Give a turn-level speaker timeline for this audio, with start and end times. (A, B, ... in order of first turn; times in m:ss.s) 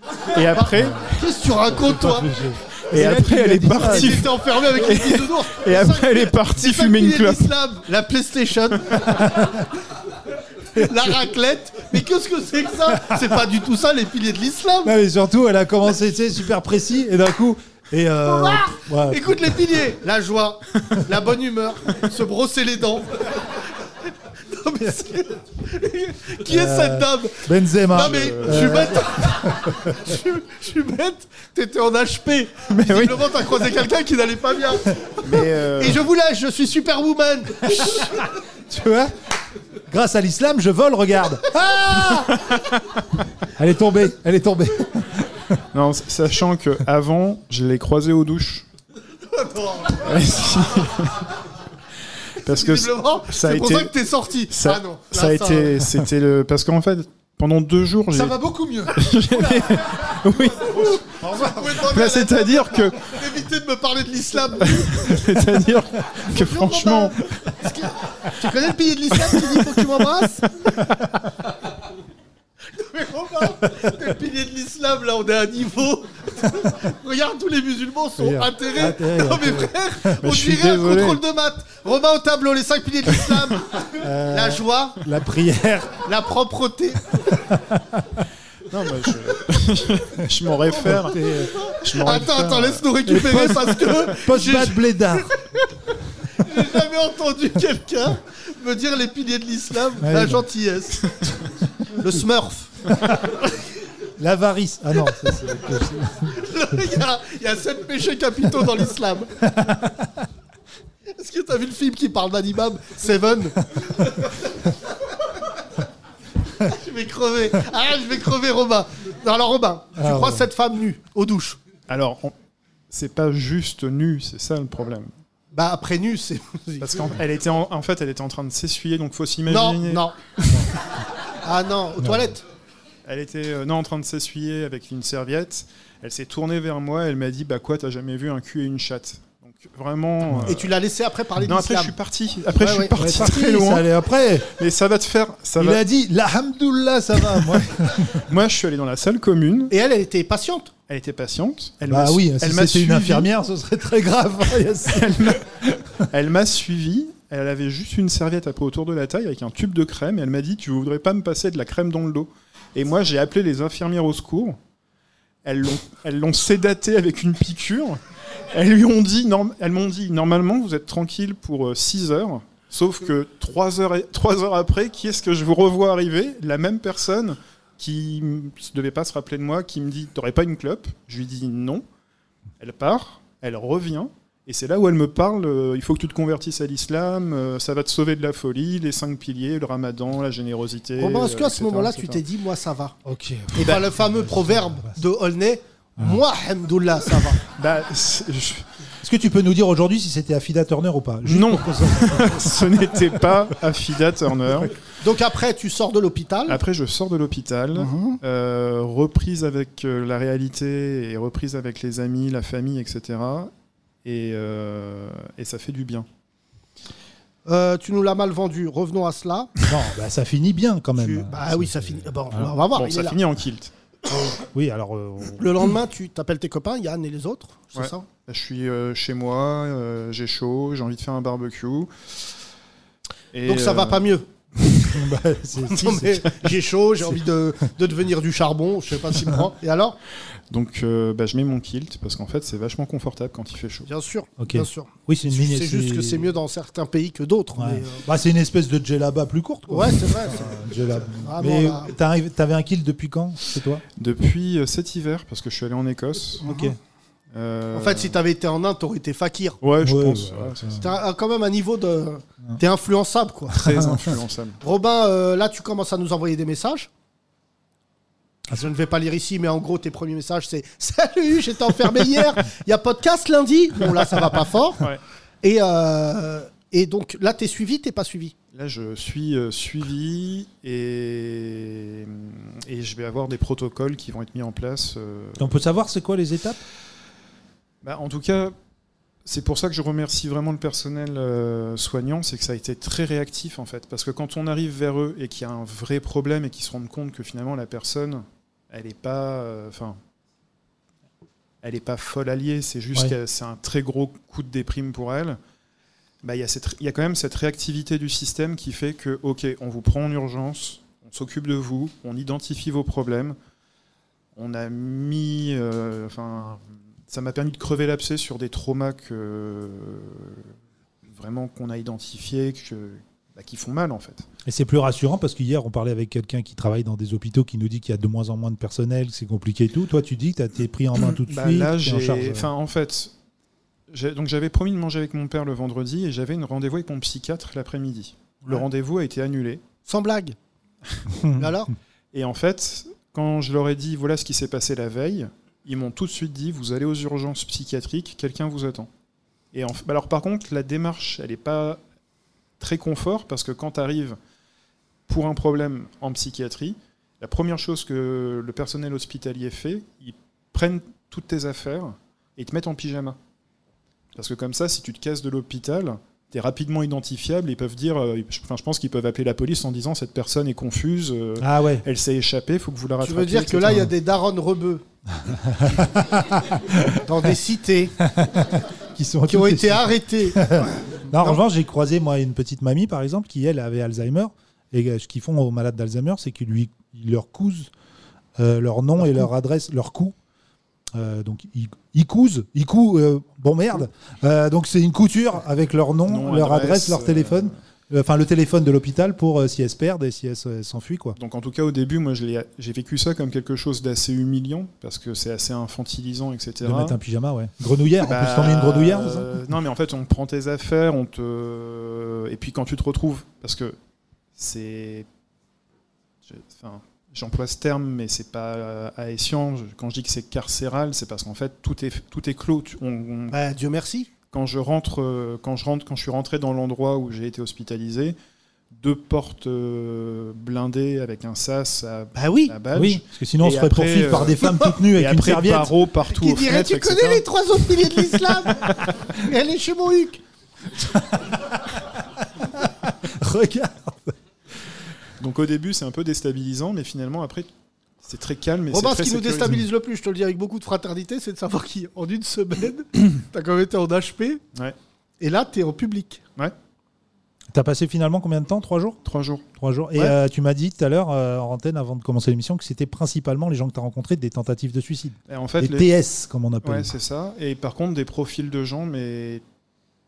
0:00.3-0:01.1 A
0:01.0-0:02.3 B
0:01.7-0:04.4 C
0:02.9-0:07.6 A
0:03.0-0:09.4 B
0:09.3-0:09.6 C
0:10.7-0:14.9 B
0:10.8-0:11.1 C
0:12.9-0:13.2 C
0:14.8-0:19.6 C
0:18.2-0:23.6 B
0:24.5-0:38.3 B
0:26.5-0:29.9 C
0:27.9-0:29.0 A
0:32.7-0:33.2 A
0:35.2-0:36.0 A
0:38.7-0:39.1 C
0:39.9-0:42.3 C
0:41.6-0:42.3 B
0:42.5-0:42.8 A
0:43.6-0:45.6 C
0:45.7-0:48.7 A
0:49.3-0:50.4 B
0:50.0-0:51.2 A
0:52.4-0:53.9 A
0:52.5-0:55.9 B
0:54.5-0:58.4 A
0:58.1-0:59.6 C
0:58.9-1:01.0 A
0:59.4-1:05.3 B
1:01.9-1:03.1 A
1:04.8-1:07.2 A
1:06.3-1:10.9 B
1:12.8-1:25.0 B
1:18.2-1:20.4 C
1:20.2-1:21.2 A
1:24.0-1:26.0 C
1:26.0-1:27.3 B
1:27.5-1:28.2 C
1:28.7-1:31.2 A
1:30.7-1:31.5 C
1:30.8-1:35.6 B
1:31.8-1:32.9 A
1:33.1-1:35.3 C
1:36.4-1:41.1 B
1:40.0-1:40.5 C
1:42.0-1:42.9 B
1:44.2-1:46.4 C
1:46.4-1:49.4 B
1:49.6-1:49.9 C
1:51.1-1:54.3 B
1:56.6-2:01.6 B
2:00.0-2:00.5 C
2:01.9-2:02.3 A
2:02.9-2:05.1 A
2:05.5-2:07.2 B
2:06.8-2:10.1 A
2:09.5-2:10.2 B
2:11.4-2:12.4 B
2:12.0-2:12.3 C
2:13.0-2:20.7 A
2:20.3-2:20.6 C
2:20.4-2:22.0 B
2:21.4-2:23.9 A
2:22.6-2:23.3 B
2:22.9-2:24.5 C
2:24.6-2:25.8 A
2:25.6-2:28.3 C
2:27.3-2:29.7 A
2:29.7-2:30.7 B
2:30.9-2:33.3 A
2:31.9-2:35.4 C
2:34.9-2:44.6 A
2:45.4-2:48.0 A
2:48.5-3:01.8 A
3:02.6-3:12.2 A
3:11.0-3:13.0 B
3:13.0-3:15.0 C
3:13.6-3:17.4 B
3:17.6-3:18.7 A
3:19.0-3:23.1 C
3:21.2-3:24.7 A
3:25.0-3:26.6 B
3:26.5-3:33.5 A
3:27.8-3:28.2 B
3:34.0-3:36.1 A
3:37.5-3:39.5 B
3:39.7-3:42.5 C
3:41.0-3:43.2 B
3:42.7-3:43.7 A
3:44.5-3:45.6 C
3:45.4-3:48.1 B
3:47.8-3:51.9 A
3:53.3-3:54.2 A
3:53.4-3:54.2 B
3:54.8-3:56.2 C
3:55.7-4:00.0 B
4:00.5-4:03.9 A
4:03.9-4:08.0 B
4:04.4-4:06.4 C
4:07.6-4:13.8 C
4:09.7-4:11.9 B
4:14.0-4:16.4 A
4:16.4-4:16.8 C
4:16.4-4:16.7 B
4:17.3-4:18.2 A
4:17.7-4:19.6 B
4:19.6-4:20.8 A
4:19.8-4:20.8 C
4:20.8-4:23.6 B
4:23.5-4:24.6 A
4:24.6-4:26.9 B
4:28.5-4:34.9 B
4:35.4-4:38.4 B
4:38.5-4:45.6 A
4:45.4-4:46.6 C
4:47.8-4:48.5 A
4:49.2-5:00.0 A
5:01.6-5:05.4 A
5:06.2-5:13.4 A
5:14.4-5:20.4 A
5:21.1-5:24.3 A
5:24.4-5:32.5 C
5:31.0-5:33.1 A
5:33.9-5:39.6 A
5:39.9-5:40.4 B
5:41.1-5:41.5 C
5:41.4-5:41.7 B
5:42.1-5:48.9 A
5:49.5-5:51.8 A
5:52.6-5:54.2 A
5:55.1-6:03.2 A
6:04.2-6:13.8 A
6:11.4-6:11.8 C
6:13.0-6:14.8 B
6:15.3-6:17.0 C
6:17.0-6:18.0 B
6:18.0-6:27.7 C
6:19.3-6:21.4 B
6:28.4-6:30.2 C
6:30.9-6:41.2 C
6:36.1-6:37.6 A
6:41.2-6:47.0 A
6:46.6-6:49.4 C
6:48.0-6:53.8 A
6:54.4-6:55.1 A
6:56.3-7:03.4 A
7:03.3-7:04.1 B
7:04.3-7:08.2 A
7:08.7-7:17.3 A
7:12.2-7:12.6 B
7:12.7-7:15.7 C
7:16.1-7:20.2 B
7:22.4-7:24.1 C
7:25.2-7:27.5 A
7:28.0-7:29.6 A
7:28.7-7:34.4 B
7:35.2-7:36.2 B
7:37.5-7:39.0 C
7:39.0-7:39.4 A
7:39.6-7:46.9 C
7:45.3-7:45.9 A
7:46.6-7:49.4 A